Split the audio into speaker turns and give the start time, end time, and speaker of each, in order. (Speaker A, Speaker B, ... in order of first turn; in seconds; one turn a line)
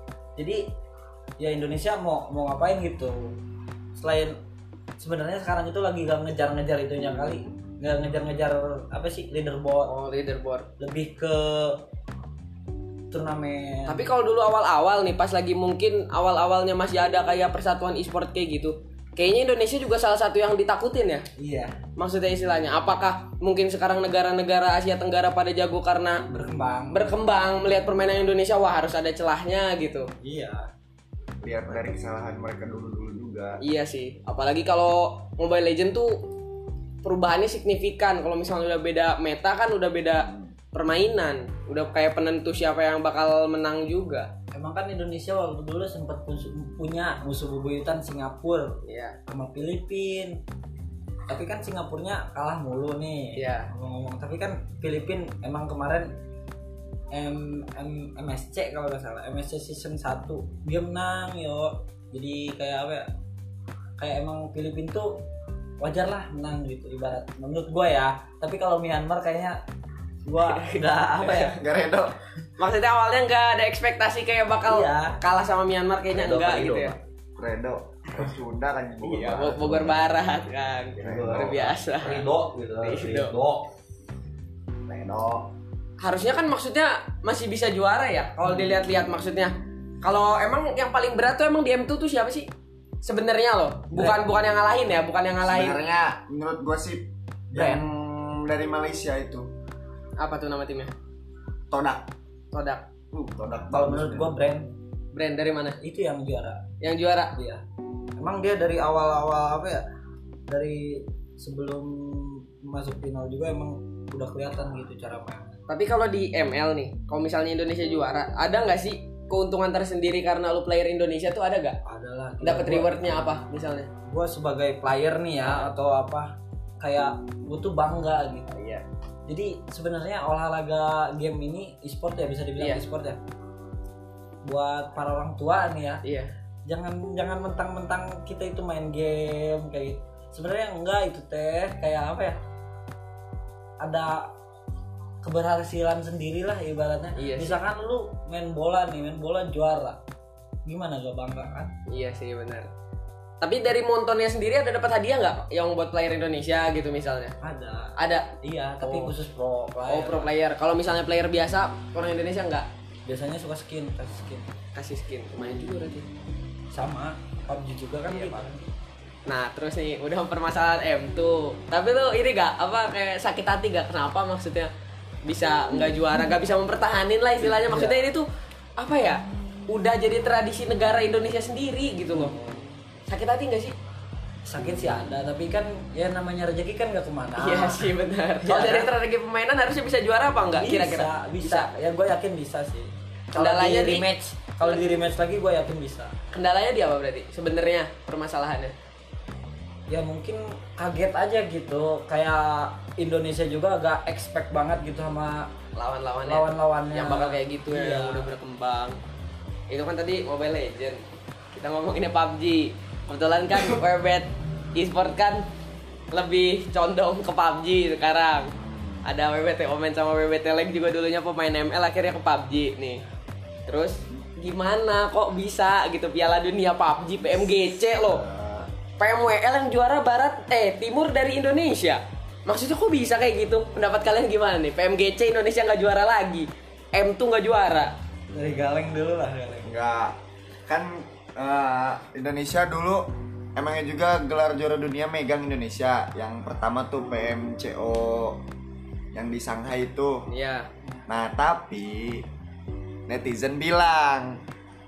Speaker A: 0.4-0.7
Speaker A: 1.4-3.4
Speaker A: 3.9-4.4
Speaker A: 5.0-9.9
Speaker B: 9.8-10.7
Speaker A: 10.8-11.8
Speaker A: 13.1-14.0
Speaker B: 13.9-21.2
Speaker A: 21.4-21.8
Speaker B: 22.0-26.2
Speaker A: 26.3-27.0
Speaker B: 26.9-30.1
Speaker A: 30.2-30.7
Speaker C: 31.4-33.6
Speaker B: 33.6-36.2
Speaker B: 37.0-44.3
Speaker C: 40.2-40.5
Speaker A: 44.5-50.4
Speaker B: 48.8-49.1
Speaker A: 51.3-56.1
Speaker B: 53.4-53.7
Speaker A: 57.1-63.1
Speaker A: 64.0-65.2
Speaker A: 65.8-69.6
Speaker A: 70.2-71.5
Speaker B: 70.4-71.2
Speaker C: 71.3-72.1
Speaker B: 72.6-76.9
Speaker A: 74.7-75.2
Speaker D: 76.1-77.0
Speaker C: 77.4-80.2
Speaker B: 79.0-82.3
Speaker D: 81.0-83.7
Speaker C: 81.0-81.5
Speaker B: 82.8-83.3
Speaker C: 84.9-85.5
Speaker B: 86.0-92.5
Speaker B: 93.0-95.8
Speaker A: 93.9-94.2
Speaker C: 95.4-99.5
Speaker A: 97.5-97.8
Speaker B: 100.2-100.9
Speaker C: 101.7-102.1
Speaker B: 102.5-102.8
Speaker C: 103.1-104.3
Speaker A: 103.7-104.7
Speaker B: 105.1-105.8
Speaker A: 105.8-106.6
Speaker B: 106.8-107.3
Speaker A: 107.3-107.6
Speaker A: 108.2-109.8
Speaker A: 110.5-115.6
Speaker B: 115.7-121.8
Speaker A: 121.8-123.0
Speaker B: 122.4-123.9
Speaker A: 124.0-128.5
Speaker B: 128.5-128.8
Speaker A: 129.2-133.2
Speaker A: 134.4-136.0
Speaker B: 136.0-136.3
Speaker A: 136.7-142.4
Speaker A: 143.8-144.3
Speaker A: 145.2-150.0
Speaker B: 147.2-147.6
Speaker A: 150.6-151.7
Speaker B: 151.9-152.7
Speaker B: 153.4-157.3
Speaker A: 157.4-160.3
Speaker B: 158.0-159.1
Speaker B: 159.9-162.7
Speaker A: 163.1-164.5
Speaker B: 164.7-166.1
Speaker A: 166.7-168.7
Speaker B: 168.1-168.5
Speaker B: 169.2-174.7
Speaker B: 175.2-182.3
Speaker A: 177.4-178.0
Speaker A: 182.1-182.6
Speaker B: 183.1-183.7
Speaker A: 184.4-187.9
Speaker B: 187.3-191.7
Speaker A: 188.4-188.9
Speaker A: 190.6-196.1
Speaker B: 193.3-194.1
Speaker B: 196.3-198.7
Speaker A: 199.9-205.5
Speaker B: 205.8-209.0
Speaker A: 206.2-208.3
Speaker B: 209.7-211.0
Speaker B: 211.5-215.4
Speaker B: 216.1-218.5
Speaker C: 218.6-219.0
Speaker B: 219.0-223.0
Speaker B: 223.7-228.2
Speaker C: 227.9-228.7
Speaker B: 229.0-237.9
Speaker A: 238.3-239.7
Speaker C: 239.6-240.1
Speaker C: 240.7-248.4
Speaker C: 249.1-250.2
Speaker B: 250.3-250.7
Speaker C: 251.1-252.2
Speaker C: 253.1-254.4